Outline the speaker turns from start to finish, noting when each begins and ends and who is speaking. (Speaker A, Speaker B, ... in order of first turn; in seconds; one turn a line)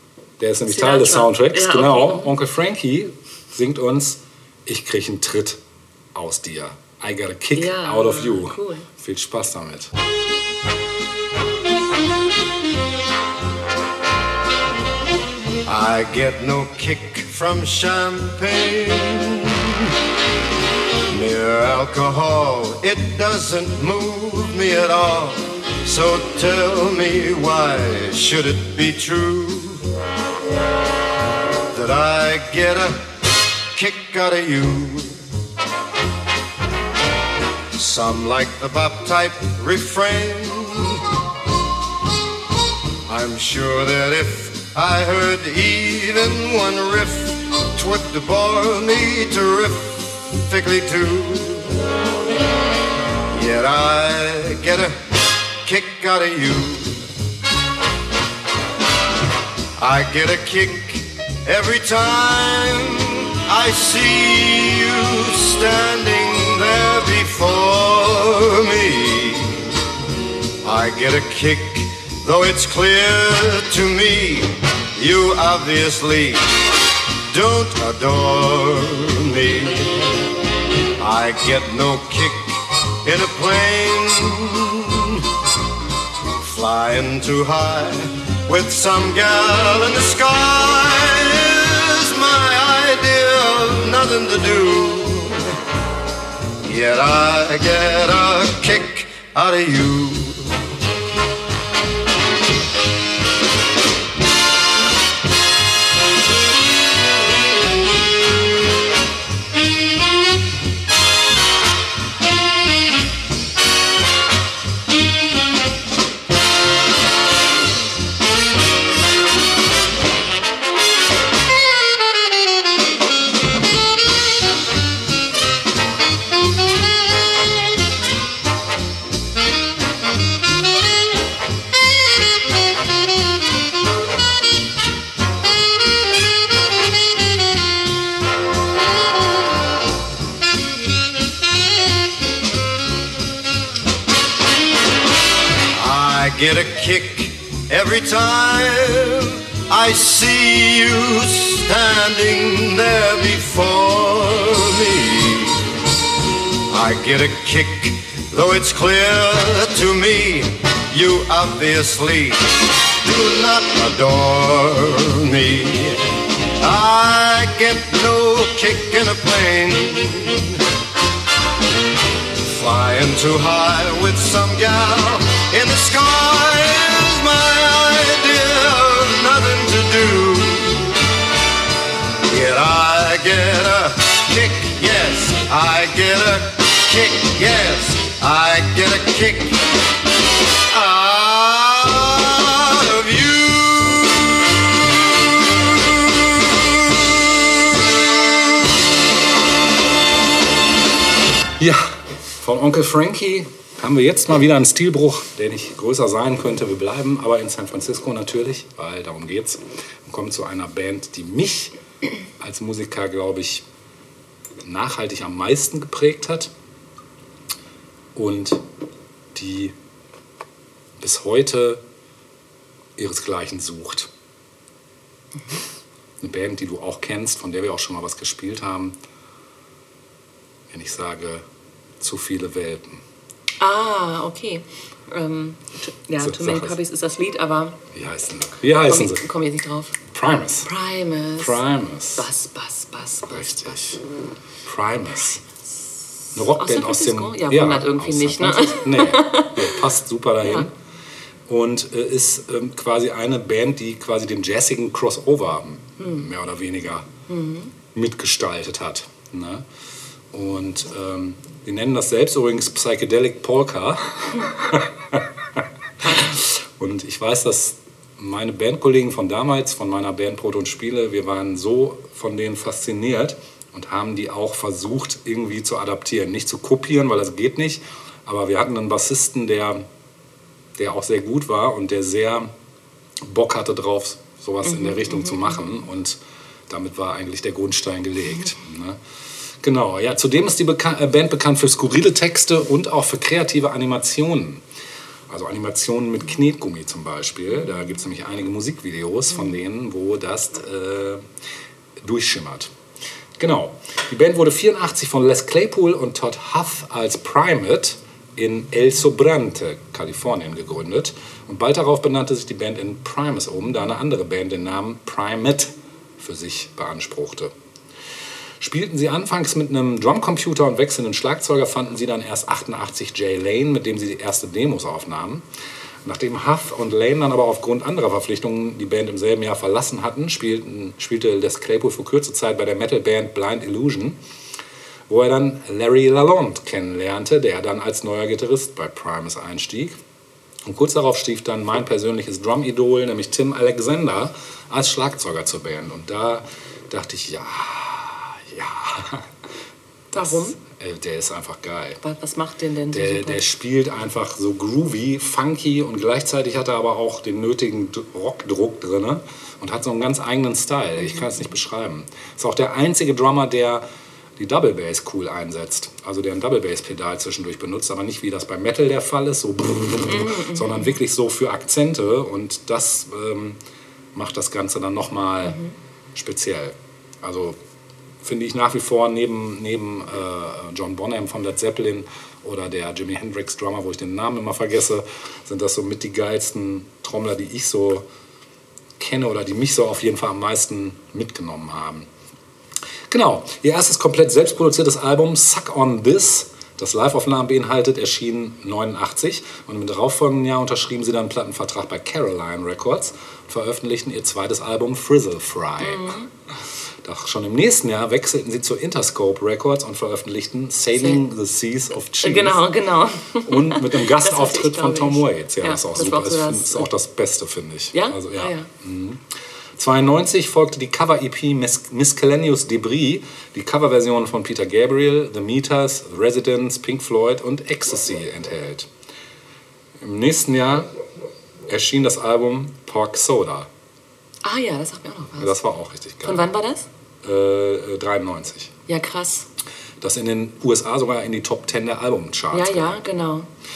Speaker A: 0.4-5.6
Speaker B: 0.7-2.3
Speaker A: 6.1-9.9
Speaker B: 7.6-8.9
Speaker C: 15.7-19.7
Speaker C: 21.1-29.8
Speaker C: 31.7-33.0
Speaker C: 33.7-35.2
Speaker C: 37.7-41.0
Speaker C: 43.1-51.7
Speaker C: 53.3-55.0
Speaker C: 55.6-57.0
Speaker C: 59.8-69.6
Speaker C: 70.6-76.4
Speaker C: 77.3-80.0
Speaker C: 81.0-85.2
Speaker C: 86.4-95.5
Speaker C: 96.6-100.6
Speaker C: 145.8-155.7
Speaker C: 156.7-166.0
Speaker C: 166.6-170.6
Speaker C: 172.4-180.9
Speaker C: 182.2-189.6
Speaker C: 190.7-194.0
Speaker A: 201.6-211.8
Speaker A: 212.4-213.7
Speaker A: 214.6-216.5
Speaker A: 218.2-218.6
Speaker A: 219.3-219.8
Speaker A: 221.0-221.8
Speaker A: 223.0-224.1
Speaker A: 226.2-229.0
Speaker A: 230.7-231.4
Speaker A: 232.0-233.0
Speaker B: 233.6-237.8
Speaker A: 236.2-236.8
Speaker A: 237.9-239.3
Speaker B: 238.9-240.0
Speaker A: 240.1-240.7
Speaker B: 240.7-241.6
Speaker A: 241.4-242.3
Speaker B: 242.2-243.8
Speaker A: 243.3-244.0
Speaker A: 244.7-245.4
Speaker A: 246.3-250.7
Speaker B: 246.5-249.8
Speaker A: 251.5-257.1
Speaker B: 256.0-256.2
Speaker B: 257.3-257.7
Speaker A: 257.9-259.7
Speaker A: 260.3-279.9
Speaker A: 280.8-282.5
Speaker A: 283.2-286.2
Speaker B: 284.8-285.1
Speaker A: 286.7-289.0
Speaker A: 289.6-294.6
Speaker A: 295.3-301.3
Speaker A: 302.0-302.7
Speaker A: 303.4-317.5
Speaker A: 318.6-325.4
Speaker A: 326.0-334.2
Speaker A: 335.1-340.0
Speaker A: 340.6-349.3
Speaker B: 350.1-350.6
Speaker A: 350.1-352.0
Speaker B: 352.0-353.4
Speaker A: 352.9-363.9
Speaker A: 364.4-373.6
Speaker B: 370.1-370.8
Speaker A: 374.1-375.6
Speaker B: 375.5-375.7
Speaker A: 376.1-377.6
Speaker A: 378.2-388.1
Speaker A: 389.0-392.1
Speaker A: 393.1-406.2
Speaker B: 405.8-406.3
Speaker A: 407.0-412.7
Speaker B: 412.2-416.9
Speaker A: 413.4-428.9
Speaker B: 417.9-418.7
Speaker A: 430.0-430.9
Speaker A: 431.7-433.7
Speaker B: 434.4-435.6
Speaker A: 435.4-436.5
Speaker B: 436.2-436.9
Speaker A: 437.2-438.7
Speaker B: 438.9-439.5
Speaker A: 440.0-443.0
Speaker B: 442.5-443.5